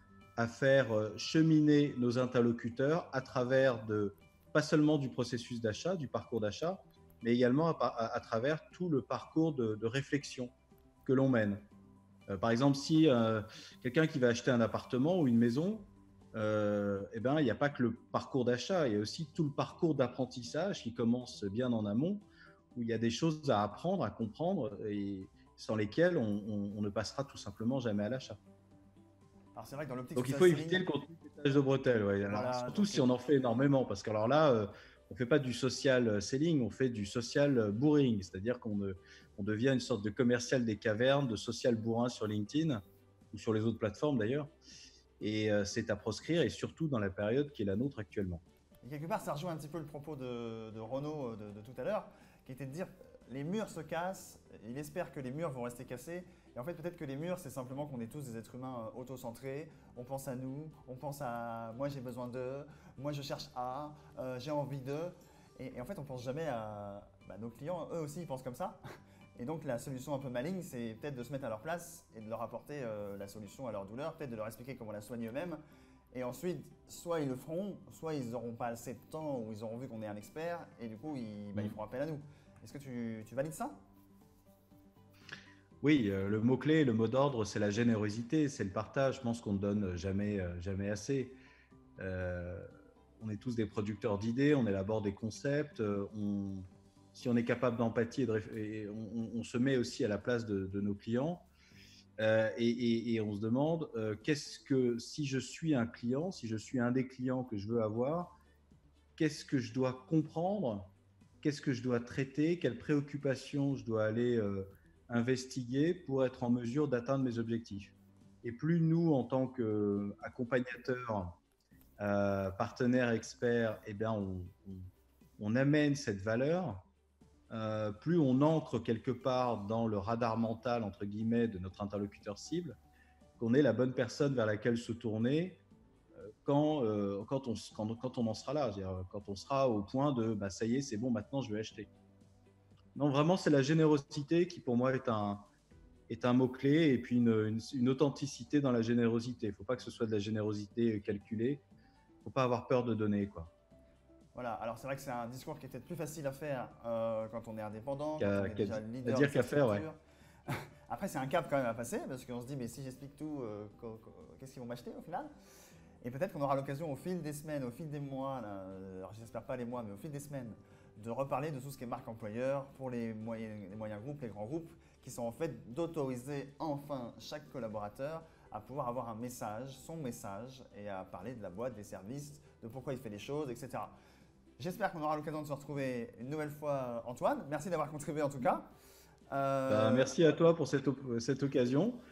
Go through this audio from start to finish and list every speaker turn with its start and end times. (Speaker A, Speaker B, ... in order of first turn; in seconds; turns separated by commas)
Speaker A: 0.3-10.5, Speaker A: 11.0-11.7, Speaker A: 12.3-28.4, Speaker B: 29.5-30.9, Speaker A: 30.1-42.8, Speaker B: 32.2-33.1, Speaker A: 43.3-44.5, Speaker A: 45.2-48.4, Speaker B: 48.8-68.8, Speaker B: 69.4-75.6, Speaker B: 76.1-83.8, Speaker A: 85.8-91.4, Speaker A: 92.0-92.7, Speaker A: 93.2-101.5, Speaker A: 102.2-108.3, Speaker A: 109.2-121.3, Speaker A: 122.0-124.9, Speaker A: 125.4-126.8, Speaker A: 127.5-132.8, Speaker A: 133.4-135.6, Speaker A: 136.4-141.9, Speaker A: 142.9-145.5, Speaker A: 146.1-151.6, Speaker A: 152.2-153.5, Speaker B: 154.3-165.3, Speaker A: 158.2-159.8, Speaker B: 166.0-183.9, Speaker B: 184.6-188.7, Speaker B: 189.3-190.3, Speaker A: 189.7-192.0